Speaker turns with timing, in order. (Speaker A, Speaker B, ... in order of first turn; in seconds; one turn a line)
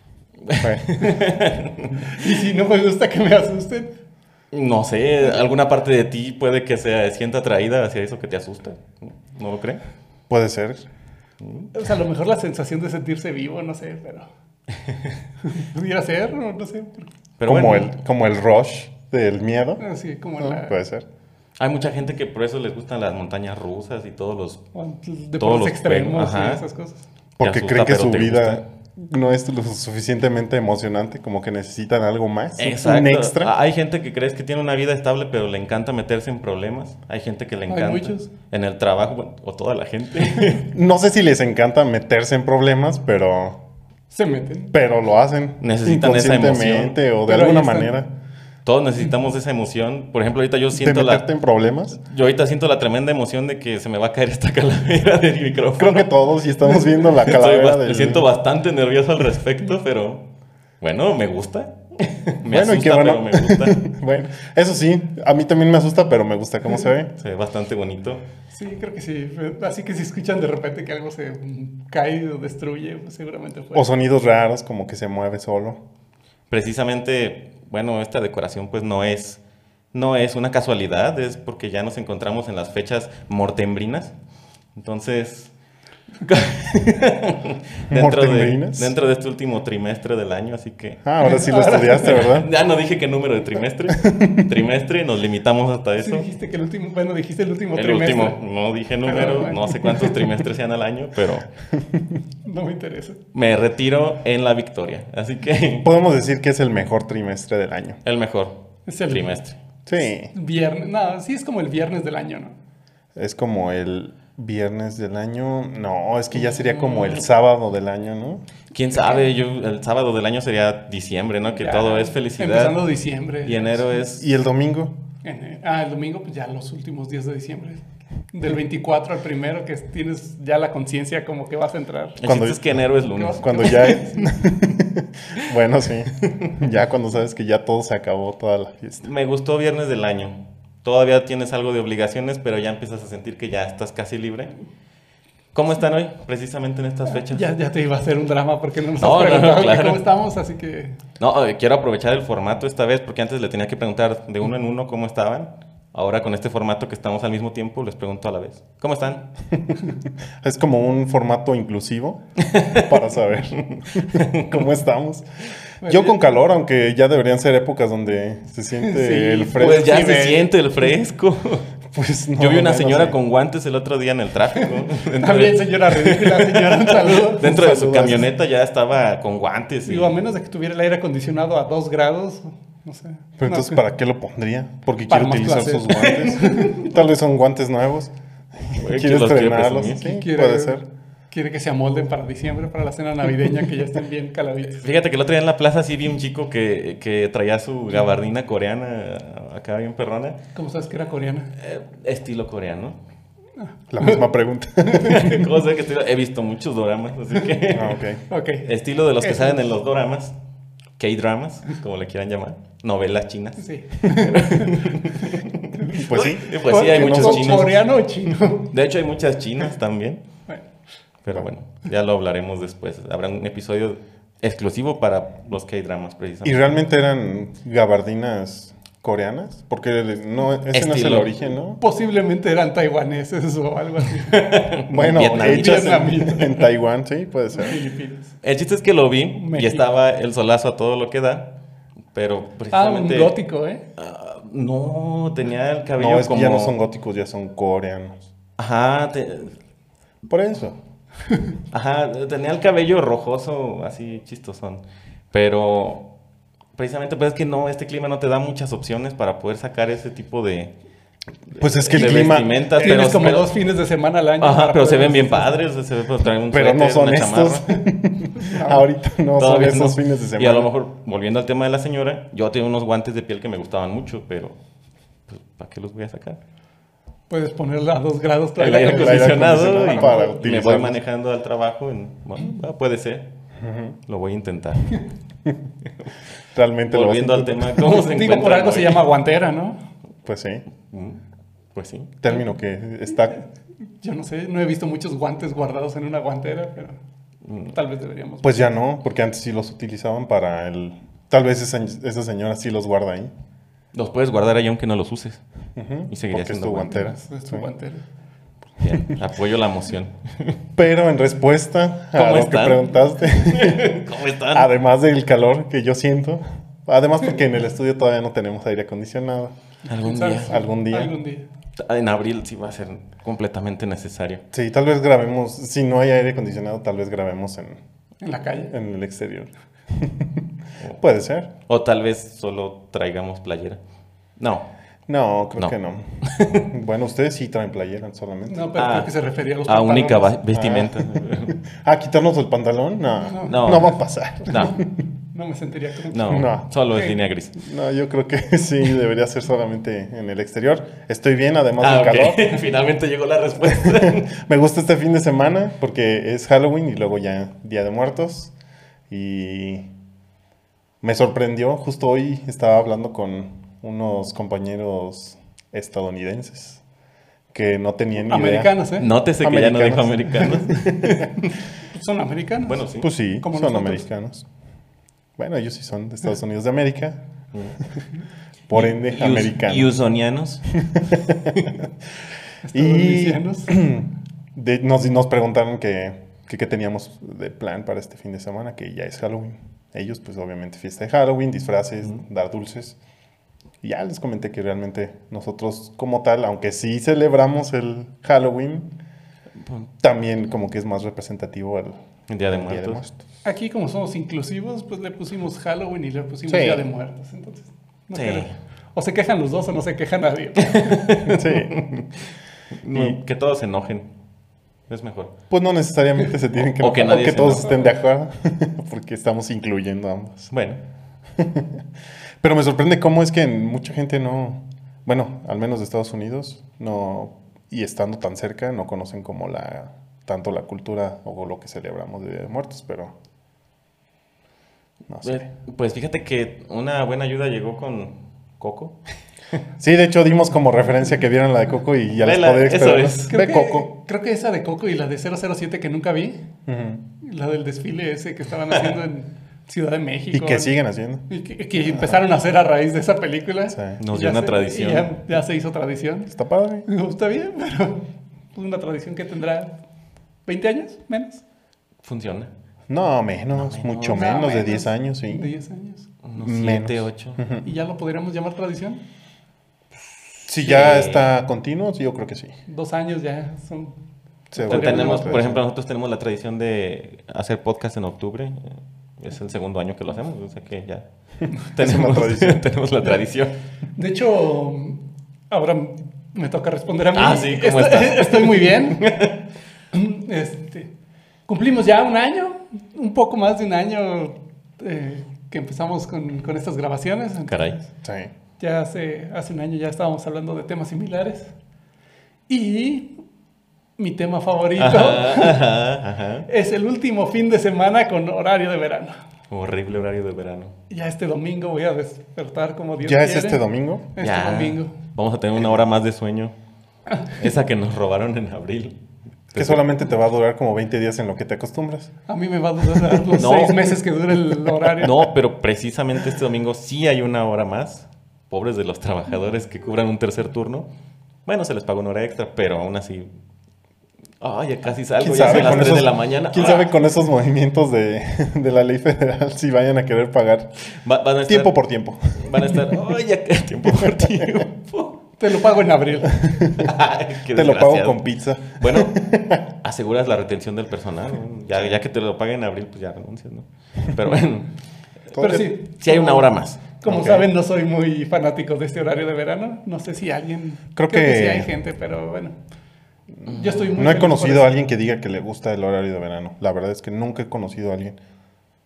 Speaker A: 0.5-2.2
Speaker B: 0.6-1.0
Speaker C: 2.0-3.9
Speaker A: 4.5-9.8
Speaker B: 10.3-10.8
Speaker A: 11.4-11.7
Speaker C: 11.7-14.3
Speaker A: 14.8-15.1
Speaker C: 15.4-17.1
Speaker A: 17.4-17.9
Speaker B: 17.5-19.8
Speaker C: 19.8-20.7
Speaker B: 20.4-21.1
Speaker A: 21.6-24.6
Speaker C: 24.7-27.1
Speaker A: 25.4-26.6
Speaker B: 27.4-33.5
Speaker A: 27.4-28.6
Speaker A: 32.6-40.7
Speaker C: 37.7-38.3
Speaker B: 40.6-43.6
Speaker C: 44.1-44.7
Speaker B: 44.7-48.1
Speaker A: 45.6-47.0
Speaker C: 47.3-48.0
Speaker A: 48.6-51.2
Speaker B: 50.8-52.0
Speaker A: 52.0-56.1
Speaker B: 55.8-58.2
Speaker A: 57.1-60.2
Speaker A: 60.8-63.8
Speaker B: 62.5-67.1
Speaker A: 67.2-68.2
Speaker C: 68.5-73.8
Speaker B: 73.8-75.8
Speaker A: 76.5-79.4
Speaker A: 79.9-84.2
Speaker A: 84.8-85.5
Speaker A: 86.2-91.3
Speaker B: 87.9-88.9
Speaker B: 91.0-92.5
Speaker C: 91.2-92.3
Speaker A: 92.0-96.3
Speaker B: 94.0-94.5
Speaker C: 96.0-98.4
Speaker A: 97.8-101.5
Speaker C: 99.0-100.4
Speaker B: 101.8-102.1
Speaker C: 102.5-103.2
Speaker A: 103.3-105.9
Speaker B: 105.8-108.0
Speaker A: 108.0-109.6
Speaker C: 108.9-109.4
Speaker B: 109.9-110.3
Speaker C: 110.2-112.6
Speaker B: 113.2-118.4
Speaker C: 116.4-117.2
Speaker A: 118.7-122.8
Speaker C: 121.5-123.7
Speaker A: 123.4-124.2
Speaker B: 124.2-124.9
Speaker C: 125.2-132.2
Speaker A: 132.2-133.9
Speaker B: 132.2-132.8
Speaker C: 133.1-134.4
Speaker B: 133.4-139.1
Speaker A: 136.2-136.6
Speaker A: 139.0-144.5
Speaker A: 145.5-147.5
Speaker C: 147.1-151.0
Speaker A: 149.0-150.0
Speaker A: 151.2-159.2
Speaker B: 159.5-159.8
Speaker B: 160.4-165.3
Speaker A: 162.4-163.0
Speaker A: 163.6-164.5
Speaker C: 165.8-166.2
Speaker B: 165.8-170.5
Speaker C: 168.8-170.3
Speaker A: 169.5-171.7
Speaker B: 171.9-173.2
Speaker A: 172.4-180.1
Speaker C: 175.2-177.6
Speaker B: 177.4-178.3
Speaker C: 179.9-183.8
Speaker B: 183.4-190.8
Speaker C: 185.1-187.0
Speaker A: 186.0-186.9
Speaker A: 188.8-190.1
Speaker C: 190.0-194.8
Speaker A: 194.8-200.4
Speaker C: 200.6-201.5
Speaker A: 201.6-203.0
Speaker C: 203.6-204.2
Speaker B: 203.9-205.4
Speaker C: 204.8-205.4
Speaker A: 205.0-208.0
Speaker B: 207.7-208.2
Speaker C: 208.3-208.7
Speaker A: 208.6-210.3
Speaker C: 209.2-209.6
Speaker A: 211.0-217.8
Speaker C: 213.6-218.7
Speaker B: 215.9-217.8
Speaker A: 218.7-220.2
Speaker A: 221.2-226.7
Speaker B: 226.4-231.8
Speaker A: 230.7-231.4
Speaker C: 231.8-236.7
Speaker A: 234.3-236.1
Speaker B: 234.9-237.8
Speaker C: 237.6-238.3
Speaker A: 238.4-241.5
Speaker C: 239.4-239.8
Speaker A: 242.1-243.3
Speaker C: 242.7-243.8
Speaker A: 244.0-246.8
Speaker B: 246.0-248.3
Speaker A: 248.6-249.6
Speaker B: 250.2-250.8
Speaker A: 251.7-256.1
Speaker A: 256.8-260.7
Speaker A: 261.5-263.5
Speaker B: 261.6-263.1
Speaker C: 262.0-265.6
Speaker A: 264.4-267.7
Speaker B: 266.5-270.7
Speaker C: 268.4-268.9
Speaker A: 269.4-274.6
Speaker A: 275.3-276.4
Speaker C: 277.3-280.5
Speaker A: 278.6-283.3
Speaker B: 278.7-281.0
Speaker B: 283.6-284.0
Speaker A: 284.1-285.0
Speaker B: 286.5-287.8
Speaker A: 286.9-289.0
Speaker C: 287.8-289.8
Speaker B: 290.2-290.6
Speaker A: 290.9-291.2
Speaker A: 291.8-292.1
Speaker B: 292.2-293.4
Speaker C: 294.0-297.0
Speaker A: 297.4-297.8
Speaker C: 297.8-298.6
Speaker B: 298.4-303.3
Speaker A: 303.9-305.4
Speaker B: 305.8-307.7
Speaker A: 306.1-306.9
Speaker C: 306.9-308.0
Speaker A: 308.8-310.6
Speaker B: 310.8-319.5
Speaker A: 312.1-312.9
Speaker A: 313.4-314.7
Speaker A: 319.9-320.5
Speaker C: 319.9-321.5
Speaker B: 320.4-321.1
Speaker A: 321.8-324.4
Speaker B: 324.5-327.8
Speaker C: 328.2-328.7
Speaker B: 328.7-330.4
Speaker B: 331.0-331.5
Speaker A: 331.7-333.8
Speaker A: 334.4-334.7
Speaker B: 335.1-338.7
Speaker A: 335.6-336.7
Speaker C: 338.5-340.4
Speaker A: 338.8-339.1
Speaker A: 339.6-341.6
Speaker B: 340.5-344.8
Speaker C: 343.2-343.9
Speaker A: 343.5-344.8
Speaker C: 345.3-347.1
Speaker A: 346.1-347.6
Speaker B: 346.3-346.6
Speaker B: 347.6-352.6
Speaker A: 351.8-354.3
Speaker B: 353.6-358.5
Speaker B: 359.1-359.9
Speaker B: 361.0-366.8
Speaker B: 367.5-368.7
Speaker C: 368.2-369.1
Speaker A: 369.0-371.6
Speaker B: 369.4-371.3
Speaker C: 371.9-374.1
Speaker A: 372.6-373.1
Speaker B: 373.0-374.5
Speaker B: 375.4-377.2
Speaker B: 378.7-379.9
Speaker A: 378.8-380.6
Speaker B: 380.7-381.9
Speaker C: 382.6-383.8
Speaker B: 382.7-393.0
Speaker B: 393.8-398.9
Speaker B: 400.0-402.0
Speaker A: 402.3-403.0
Speaker B: 402.6-403.2
Speaker C: 403.4-411.1
Speaker B: 406.5-406.9
Speaker A: 408.1-408.5
Speaker A: 410.6-412.3
Speaker B: 411.3-412.0
Speaker A: 412.8-414.1
Speaker B: 412.9-413.2
Speaker A: 414.9-415.3
Speaker B: 415.5-420.5
Speaker A: 416.8-417.8
Speaker A: 420.5-420.8
Speaker B: 421.4-421.7
Speaker B: 422.4-433.1
Speaker B: 435.1-435.4
Speaker A: 435.2-439.0
Speaker B: 439.8-443.9
Speaker A: 442.2-443.3
Speaker C: 443.3-446.4
Speaker B: 446.7-447.0
Speaker C: 447.2-450.7
Speaker B: 450.3-451.3
Speaker C: 451.3-456.3
Speaker B: 451.9-452.2
Speaker B: 453.7-454.0
Speaker A: 454.0-455.1
Speaker B: 456.3-456.9
Speaker C: 456.9-459.8
Speaker C: 460.5-461.4
Speaker A: 462.0-462.5
Speaker B: 462.9-465.5
Speaker A: 463.6-464.2
Speaker C: 464.1-466.1
Speaker A: 466.2-467.4
Speaker B: 466.4-467.7
Speaker C: 467.6-469.0
Speaker B: 470.5-472.5
Speaker A: 470.6-471.3
Speaker C: 472.7-474.0
Speaker B: 474.5-475.6
Speaker C: 474.6-475.5
Speaker A: 474.7-483.6
Speaker B: 481.8-482.6
Speaker C: 484.0-489.2
Speaker A: 487.1-489.4
Speaker C: 489.9-490.9
Speaker C: 491.5-497.5
Speaker A: 497.5-497.9
Speaker B: 498.0-498.3
Speaker C: 498.6-501.5
Speaker C: 502.5-503.1
Speaker C: 504.0-505.7
Speaker A: 504.8-506.5
Speaker C: 506.5-509.2
Speaker A: 509.5-510.7
Speaker C: 510.9-513.6
Speaker B: 513.0-514.1
Speaker C: 514.1-515.0
Speaker A: 514.2-516.6
Speaker A: 517.3-519.0
Speaker A: 519.5-519.9
Speaker B: 519.5-522.1
Speaker C: 522.3-525.2
Speaker B: 523.0-523.2
Speaker A: 523.4-523.9
Speaker A: 525.0-530.9
Speaker A: 531.5-533.3
Speaker A: 534.4-536.9
Speaker B: 535.2-540.7
Speaker A: 540.9-541.8
Speaker B: 541.5-542.9
Speaker A: 542.3-545.2
Speaker B: 543.9-544.6
Speaker C: 545.4-546.5
Speaker B: 546.2-546.9
Speaker A: 546.8-554.7
Speaker B: 547.5-549.6
Speaker B: 555.4-555.7
Speaker C: 555.4-562.5
Speaker A: 555.4-556.8
Speaker B: 557.0-557.5
Speaker B: 561.0-561.7
Speaker C: 563.5-564.7
Speaker B: 564.0-568.2